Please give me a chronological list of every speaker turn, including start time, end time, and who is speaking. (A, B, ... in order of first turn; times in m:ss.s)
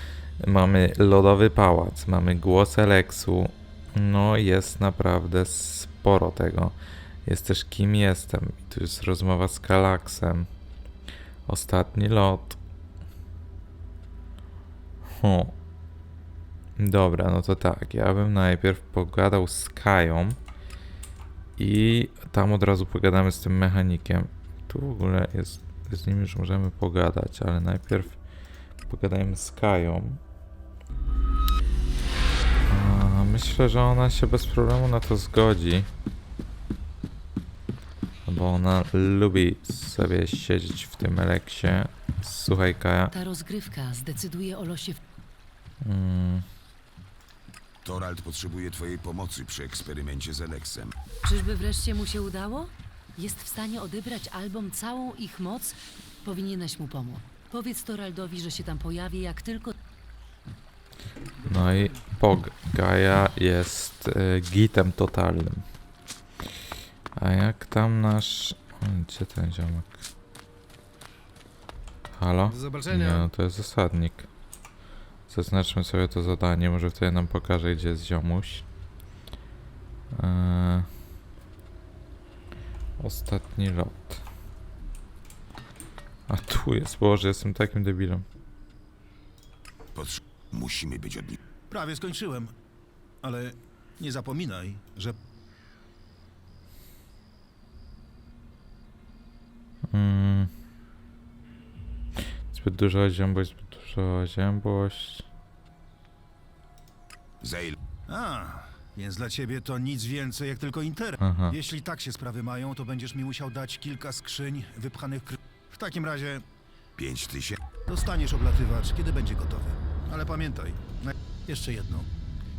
0:00.4-0:10.5 A
0:11.4-0:12.6 A
0:15.0-0:15.5 A
0:16.8-0:20.4 A
0:21.6-0:28.2 A
0:28.9-0:30.2 A
0:32.7-0:35.9 A
0:38.2-0:43.1 A
0:43.1-0:45.0 B
0:45.8-0:46.4 A
0:47.8-0:50.9 C
0:51.2-0:59.8 B
1:01.4-1:05.6 A
1:07.2-1:10.0 A
1:12.1-1:14.3 A
1:12.5-1:13.3 D
1:15.3-1:18.6 A
1:20.1-1:20.9 A
1:23.0-1:24.2 A
1:26.3-1:28.2 A
1:29.9-1:31.4 C
1:31.7-1:32.5 D
1:33.2-1:35.2 D
1:39.9-1:40.5 A
1:42.5-1:45.3 A
1:47.4-1:47.7 C
1:48.1-1:56.4 D
1:51.2-1:51.6 A
1:57.0-1:57.6 C
1:57.9-2:02.1 D